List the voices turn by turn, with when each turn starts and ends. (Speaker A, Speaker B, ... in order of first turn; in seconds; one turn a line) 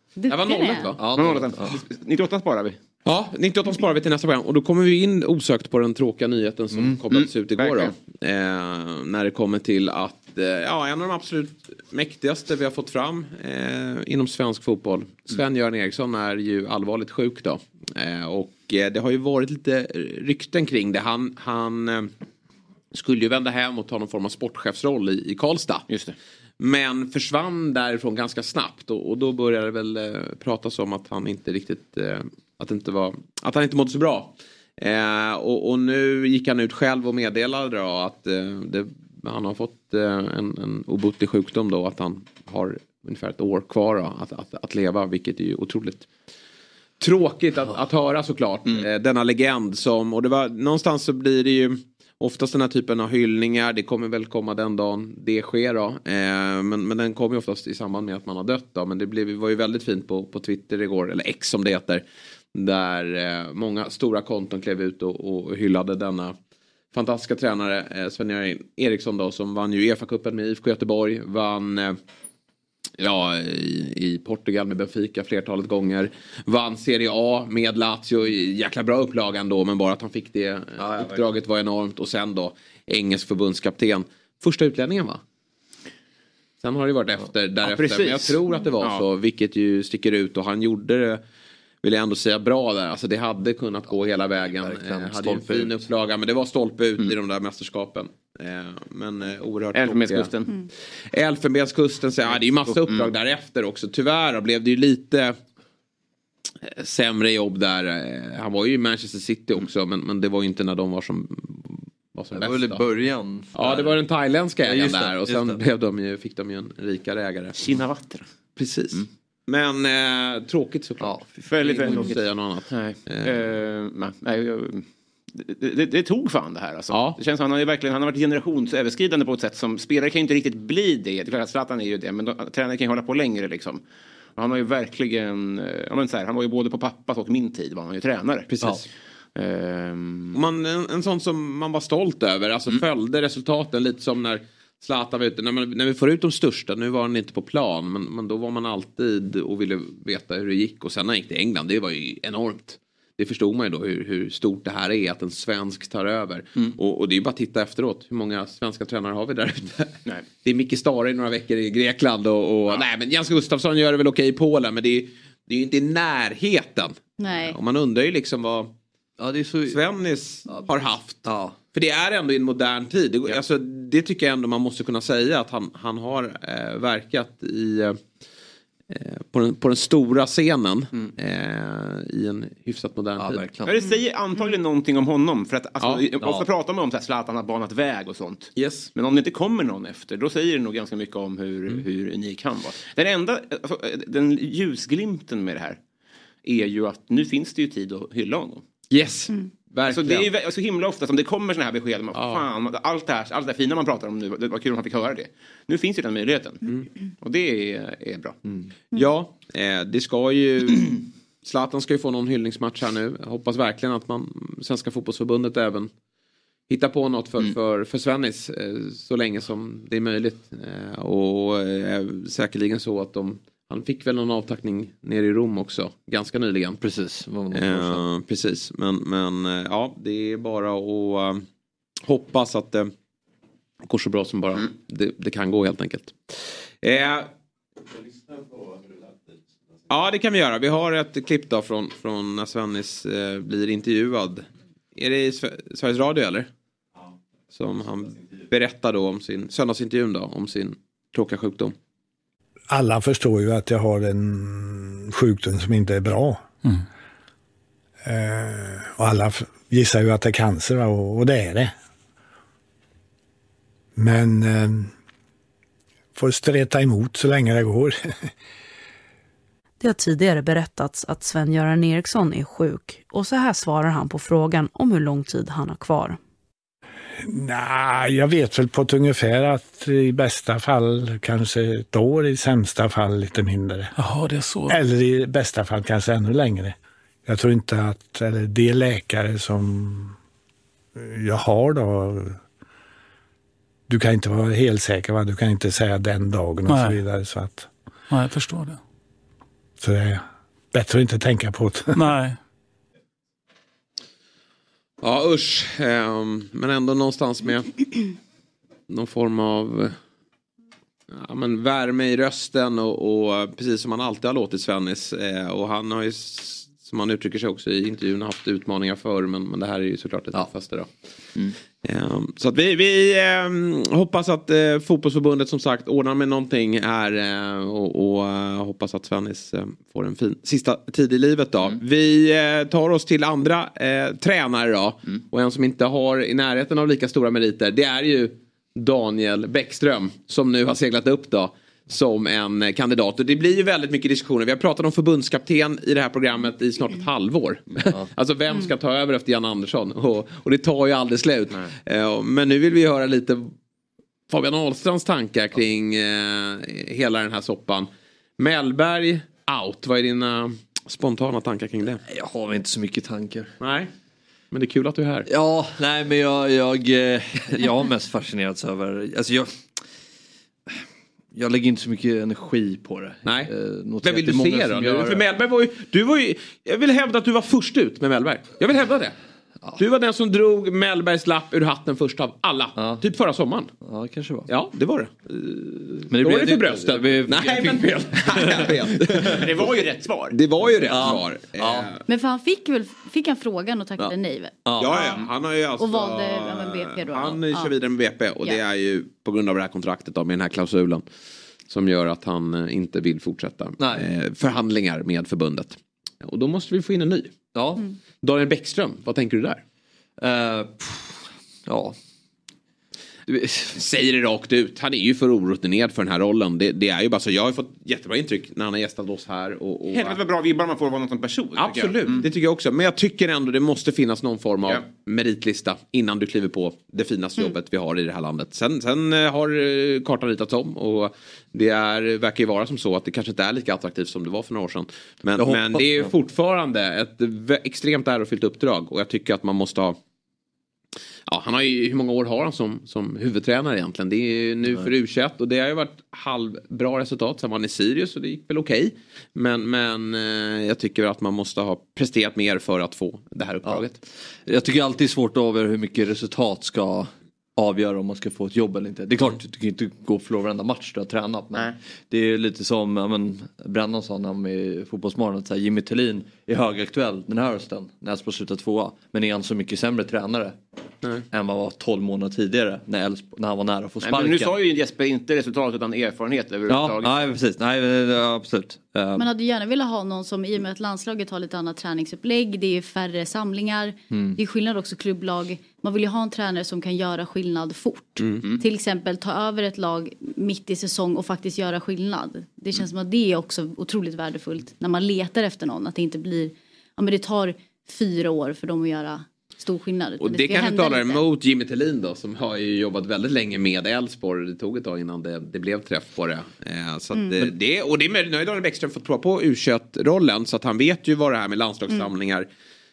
Speaker A: 0.2-0.9
Speaker B: 0.3-1.0
Speaker C: 1.0-1.8
Speaker D: 1.1-2.8
Speaker B: 3.0-22.1
Speaker D: 7.1-7.9
Speaker B: 22.9-25.9
Speaker D: 25.9-26.1
Speaker B: 26.6-46.1
Speaker B: 47.0-62.0
Speaker B: 62.5-66.3
Speaker B: 66.9-72.0
Speaker B: 73.0-85.2
Speaker C: 80.8-81.3
Speaker B: 86.6-91.2
Speaker D: 87.6-89.0
Speaker B: 91.8-100.3
Speaker C: 93.9-95.9
Speaker D: 99.7-100.5
Speaker B: 101.1-105.4
Speaker D: 102.7-103.1
Speaker B: 106.6-112.8
Speaker C: 112.3-114.0
Speaker B: 113.5-117.6
Speaker C: 114.6-115.6
Speaker D: 117.6-118.2
Speaker B: 118.6-123.3
Speaker C: 121.0-122.1
Speaker D: 121.5-122.2
Speaker D: 122.7-133.8
Speaker B: 126.9-127.2
Speaker D: 134.4-138.7
Speaker B: 138.5-138.8
Speaker D: 139.3-140.3
Speaker B: 140.3-168.7
Speaker A: 167.2-167.6
Speaker C: 169.2-169.8
Speaker B: 169.7-178.0
Speaker C: 170.5-171.6
Speaker B: 178.9-183.4
Speaker C: 183.2-183.7
Speaker D: 183.6-195.8
Speaker B: 188.6-188.9
Speaker D: 196.4-198.6
Speaker B: 198.9-200.3
Speaker D: 199.9-206.7
Speaker B: 202.1-202.4
Speaker D: 207.2-208.4
Speaker B: 208.9-215.9
Speaker B: 216.7-226.8
Speaker C: 226.8-228.0
Speaker B: 227.5-231.4
Speaker B: 232.0-232.9
Speaker B: 233.8-237.3
Speaker B: 239.9-246.5
Speaker B: 247.5-251.7
Speaker E: 252.7-256.4
Speaker E: 258.0-261.7
Speaker E: 263.9-264.9
Speaker E: 266.1-268.1
Speaker F: 269.8-276.2
Speaker E: 277.3-290.1
Speaker G: 284.0-284.8
Speaker E: 290.9-292.4
Speaker E: 293.9-297.7
Speaker G: 296.6-297.0
Speaker G: 298.1-298.8
Speaker E: 299.8-302.0
Speaker G: 301.9-302.4
Speaker B: 305.0-307.7
Speaker B: 308.9-310.0
Speaker B: 311.1-320.9
Speaker B: 321.8-353.5
Speaker B: 354.3-362.0
Speaker C: 362.1-363.5
Speaker B: 363.6-363.9
Speaker B: 364.5-365.3
Speaker C: 365.3-369.6
Speaker C: 371.3-375.2
Speaker B: 373.2-379.1
Speaker B: 379.8-383.7
Speaker C: 382.8-383.0
Speaker C: 383.8-384.5
Speaker B: 384.5-389.4
Speaker C: 386.1-389.4
Speaker D: 389.2-390.3
Speaker B: 390.3-392.0
Speaker C: 390.9-391.9
Speaker A: 392.1-395.2
Speaker C: 394.0-394.9
Speaker B: 394.8-401.0
Speaker A: 395.8-397.7
Speaker B: 401.7-407.4
Speaker C: 403.8-404.1
Speaker C: 407.5-407.8
Speaker B: 408.2-409.6
Speaker C: 410.2-411.9
Speaker C: 413.3-413.8
Speaker B: 413.7-420.2
Speaker D: 419.9-422.2
Speaker B: 421.6-440.0
Speaker C: 435.4-436.1
Speaker B: 441.3-453.9
Speaker C: 454.4-470.6
Speaker C: 471.3-474.5
Speaker D: 474.0-477.3
Speaker C: 476.7-479.3
Speaker A: 479.2-501.2
Speaker C: 484.1-484.4
Speaker B: 500.2-512.5
Speaker A: 507.1-507.5